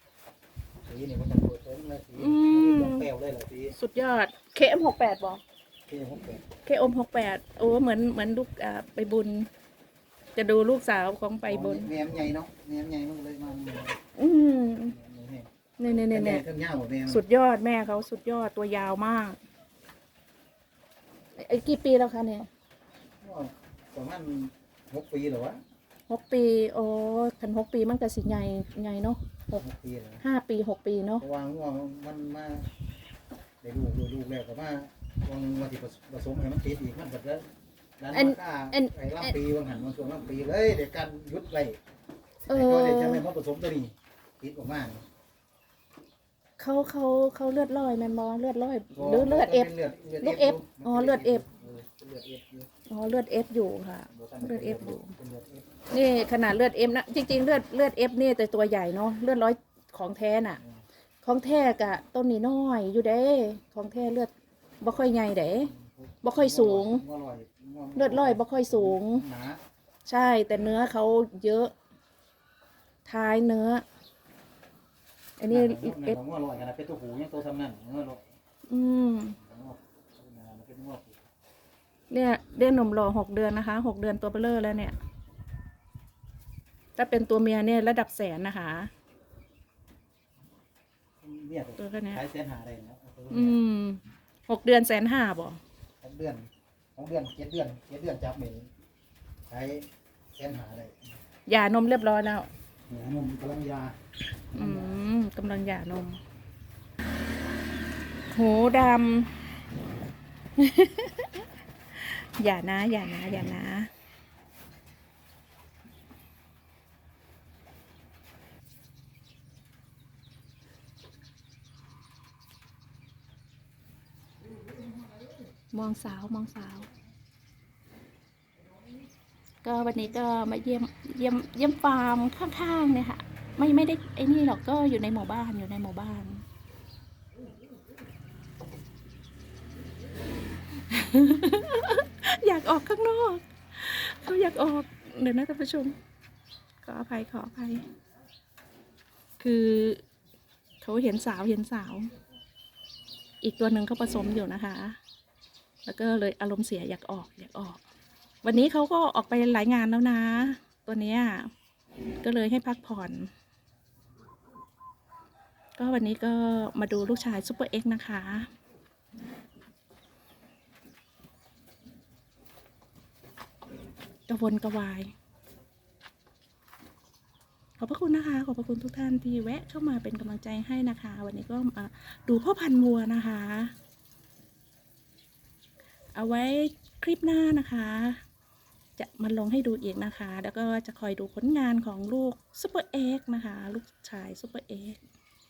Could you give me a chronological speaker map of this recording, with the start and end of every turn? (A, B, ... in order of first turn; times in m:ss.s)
0:00.8-0:03.8 A
0:02.2-0:03.1 B
0:03.7-0:05.4 B
0:05.9-0:06.4 A
0:06.6-0:09.5 B
0:10.4-0:11.9 B
0:11.4-0:14.0 A
0:14.2-0:14.9 B
0:14.8-0:15.5 A
0:15.8-0:16.4 B
0:16.1-0:17.2 A
0:17.1-0:19.4 B
0:21.4-0:22.5 B
0:23.2-0:25.6 A
0:26.1-0:29.6 B
0:29.6-0:30.2 A
0:30.2-0:31.2 B
0:31.2-0:32.7 A
0:33.6-0:37.4 A
0:38.0-0:41.8 A
0:38.1-0:39.4 B
0:42.5-0:43.2 B
0:42.5-0:45.0 A
0:46.6-0:51.4 B
0:49.0-0:52.7 A
0:52.9-0:55.2 B
0:54.1-0:55.7 A
0:55.9-1:00.6 B
1:01.2-1:04.3 B
1:04.8-1:07.0 B
1:05.7-1:09.6 A
1:08.0-1:09.2 B
1:10.0-1:11.7 B
1:13.0-1:13.8 B
1:15.4-1:16.2 B
1:15.5-1:18.3 A
1:18.7-1:19.4 B
1:19.4-1:21.2 A
1:22.1-1:25.0 B
1:27.0-1:28.9 B
1:31.2-1:33.6 A
1:31.8-1:32.2 B
1:33.3-1:35.6 B
1:36.0-1:38.7 A
1:39.5-1:41.0 A
1:41.4-1:42.5 B
1:42.9-1:44.0 A
1:44.5-1:45.0 A
1:44.5-1:46.2 B
1:48.3-1:49.4 B
1:50.6-1:53.9 B
2:05.7-2:06.9 B
2:09.6-2:16.4 B
2:20.8-2:26.0 B
2:26.8-2:27.8 B
2:29.4-2:30.0 B
2:30.8-2:32.1 B
2:33.4-2:35.0 B
2:35.8-2:37.8 B
2:38.4-2:41.5 B
2:42.2-2:43.3 B
2:45.8-2:48.5 B
2:54.3-2:55.1 B
2:57.8-3:03.7 B
3:06.1-3:08.2 B
3:09.0-3:15.0 B